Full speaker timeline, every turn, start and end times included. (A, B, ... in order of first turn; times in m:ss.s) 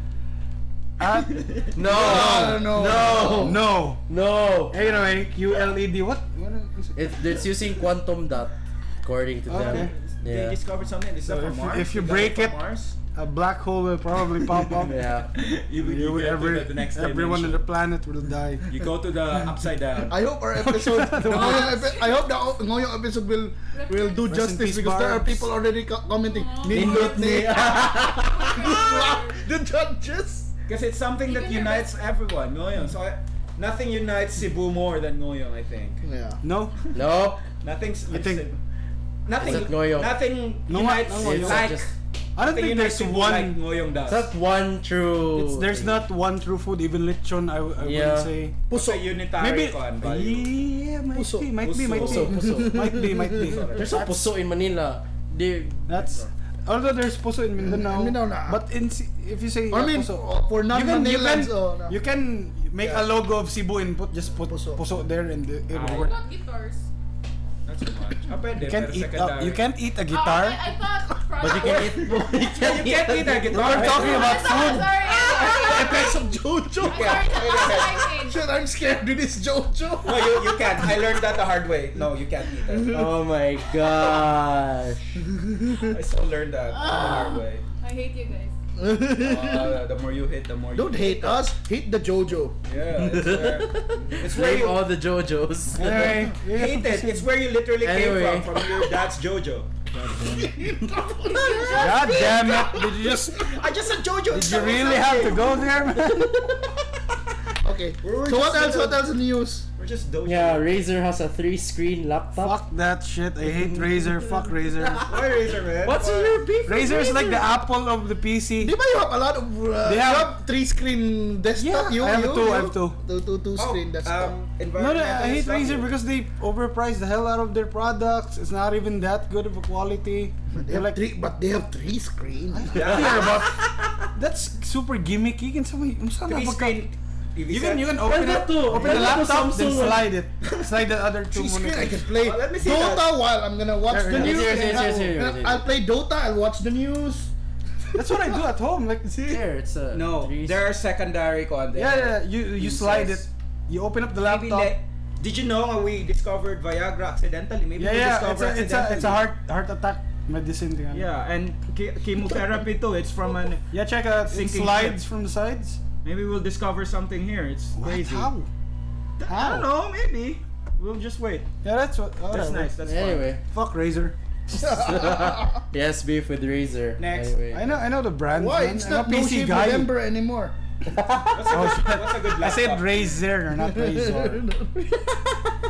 0:01.0-0:04.0 A
0:01.0-0:02.2 B
0:01.8-0:04.8 C
0:01.8-0:03.6 D
0:04.7-0:07.4 A
0:07.0-0:10.6 C
0:09.5-0:09.9 A
0:09.6-0:13.0 B
0:11.3-0:12.6 A
0:13.1-0:15.1 A
0:14.8-0:15.3 C
0:15.3-0:17.6 B
0:15.7-0:18.7 A
0:18.7-0:20.2 B
0:20.1-0:30.5 D
0:20.6-0:21.9 A
0:21.4-0:22.3 E
0:23.7-0:24.4 E
0:24.3-0:25.5 A
0:26.2-0:29.4 E
0:26.7-0:28.5 C
0:30.7-0:36.0 B
0:31.2-0:32.0 E
0:36.0-0:36.4 D
0:36.4-0:36.8 A
0:36.9-0:37.4 C
0:37.6-0:38.6 B
0:38.1-0:38.5 A
0:39.3-0:44.3 B
0:39.4-0:40.2 C
0:40.7-0:41.7 A
0:41.1-0:41.9 C
0:42.4-0:43.6 A
0:44.1-0:46.0 C
0:45.4-0:48.6 A
0:47.8-0:48.3 C
0:48.7-0:49.0 D
0:48.7-0:50.5 B
0:49.4-0:54.3 A
0:51.2-0:53.6 D
0:51.8-0:52.9 C
0:53.4-0:53.9 B
0:53.8-0:56.0 C
0:55.9-1:06.1 A
0:56.0-0:56.3 B
0:57.6-0:58.6 D
0:59.7-1:02.0 D
1:04.4-1:05.0 D
1:05.7-1:06.1 B
1:05.9-1:06.9 E
1:07.6-1:09.7 B
1:08.6-1:10.6 A
1:10.1-1:12.1 E
1:11.4-1:14.3 C
1:11.5-1:14.4 B
1:13.5-1:15.0 A
1:13.9-1:18.4 E
1:14.5-1:21.2 D
1:16.8-1:18.1 B
1:20.0-1:23.0 B
1:22.6-1:23.1 D
1:22.9-1:25.2 C
1:23.8-1:24.2 D
1:25.3-1:26.0 D
1:25.9-1:27.6 B
1:26.8-1:28.5 E
1:28.8-1:29.8 D
1:29.2-1:31.4 B
1:30.8-1:32.6 D
1:32.6-1:34.8 B
1:33.0-1:36.3 C
1:35.8-1:37.3 A
1:36.4-1:39.8 B
1:37.8-1:38.8 C
1:40.3-1:43.3 D
1:41.3-1:42.3 E
1:41.8-1:43.5 A
1:43.4-1:45.6 B
1:44.3-1:46.6 A
1:45.9-1:46.6 C
1:47.6-1:49.7 D
1:48.0-1:49.0 B
1:49.8-1:50.7 B
1:50.2-1:52.6 C
1:52.4-1:55.1 A
1:53.6-1:55.2 C
1:55.0-1:56.4 B
1:55.8-1:57.5 C
1:56.7-1:58.8 A
1:58.6-2:04.4 D
1:59.8-2:00.3 A
2:01.6-2:03.0 A
2:03.6-2:05.9 B
2:04.8-2:11.0 A
2:10.5-2:13.1 D
2:12.6-2:13.6 A
2:12.7-2:13.4 B
2:12.8-2:13.7 C
2:14.2-2:16.8 A
2:16.3-2:18.0 B
2:17.5-2:22.1 A
2:18.0-2:20.1 C
2:18.8-2:19.4 B
2:21.3-2:27.3 D
2:22.2-2:23.1 B
2:23.9-2:25.0 A
2:24.1-2:25.7 C
2:27.9-2:29.4 A
2:29.3-2:30.7 C
2:29.9-2:33.3 B
2:31.8-2:34.8 A
2:34.2-2:39.3 B
2:37.8-2:41.1 A
2:40.9-2:43.6 B
2:43.7-2:45.8 A
2:44.2-2:45.0 B
2:46.0-2:48.3 B
2:47.8-2:48.5 A
2:49.2-2:51.5 B
2:49.3-2:49.7 A
2:51.6-2:52.7 A
2:52.3-2:53.3 B
2:52.8-2:53.4 C
2:53.5-2:54.2 A
2:54.5-2:55.6 D
2:54.5-2:57.7 C
2:57.0-2:57.8 B
2:57.5-2:59.9 A
2:58.3-3:00.6 D
3:00.9-3:01.3 C
3:01.3-3:03.0 B
3:01.5-3:04.4 A
3:03.6-3:05.4 D